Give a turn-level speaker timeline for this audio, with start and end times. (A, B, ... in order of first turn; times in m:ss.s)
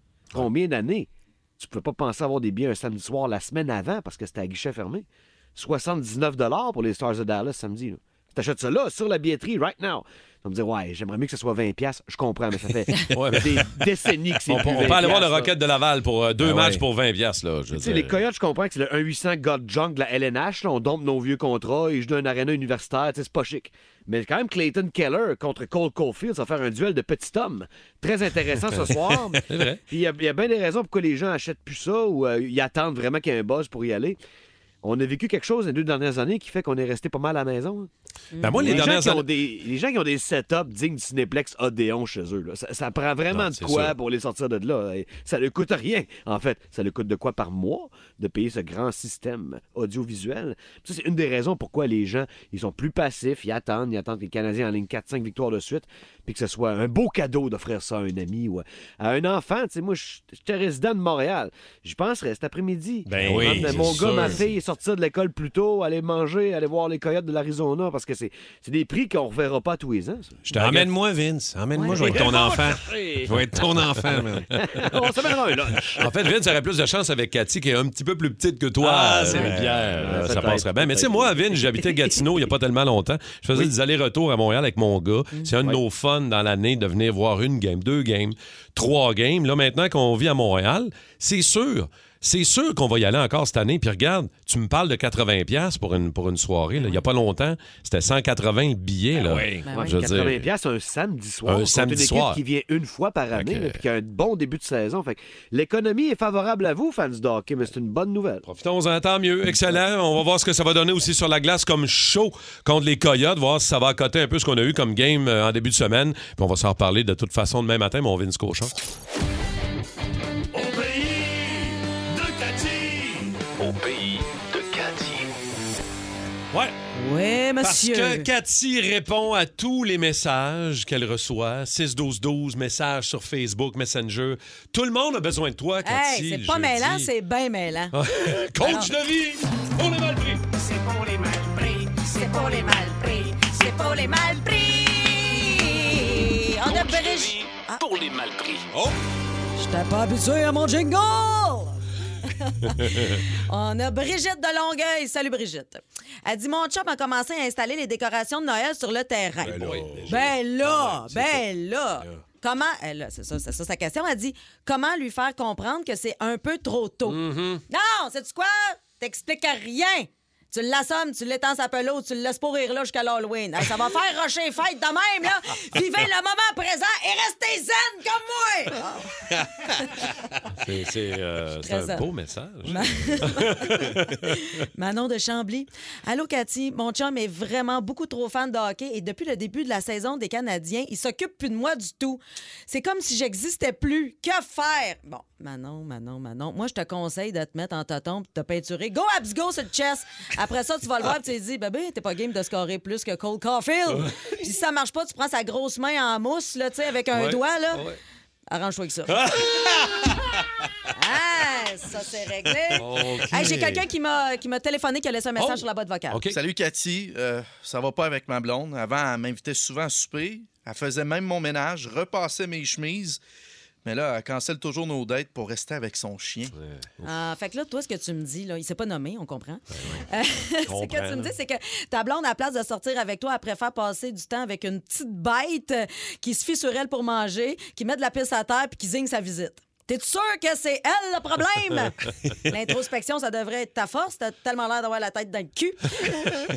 0:00.3-0:15.6 A
0:13.1-0:13.8 B
0:14.4-0:18.2 B
0:16.5-0:16.8 C
0:17.7-0:34.2 A
0:29.5-0:29.8 B
0:34.8-0:37.9 A
0:38.3-0:38.9 D
0:38.4-0:39.3 B
0:38.6-1:10.4 A
0:43.3-0:43.9 B
1:03.1-1:04.4 B
1:03.2-1:04.4 C
1:10.4-1:10.9 B
1:10.5-1:16.0 C
1:11.7-1:12.0 D
1:11.9-1:13.3 A
1:12.0-1:12.5 B
1:14.6-1:16.0 A
1:16.0-1:40.5 B
1:18.8-1:20.5 C
1:19.3-1:22.0 A
1:39.1-1:39.6 C
1:39.6-1:40.0 D
1:39.6-1:48.4 A
1:41.4-1:42.4 B
1:43.3-1:43.8 B
1:48.4-1:58.7 B
2:00.5-2:03.4 B
2:03.6-2:05.3 E
2:06.9-2:08.3 D
2:07.6-2:17.1 B
2:15.8-2:17.9 D
2:17.9-2:20.5 B
2:18.6-2:18.9 D
2:21.8-2:27.8 D
2:26.6-2:28.7 E
2:29.6-3:00.1 D
2:39.4-2:40.3 B
2:39.4-2:41.3 C
2:47.0-2:47.6 B
3:00.6-3:04.4 B
3:01.6-3:02.1 D
3:02.6-3:27.8 D
3:23.9-3:24.2 B
3:27.1-3:28.0 B
3:28.5-3:29.2 D
3:29.1-3:30.1 B
3:30.9-3:36.2 D
3:32.7-3:33.8 B
3:35.4-3:36.4 B
3:36.3-3:43.2 F
3:43.8-3:46.5 F
3:47.0-4:06.4 D
3:49.8-3:50.0 B
3:50.6-3:51.3 B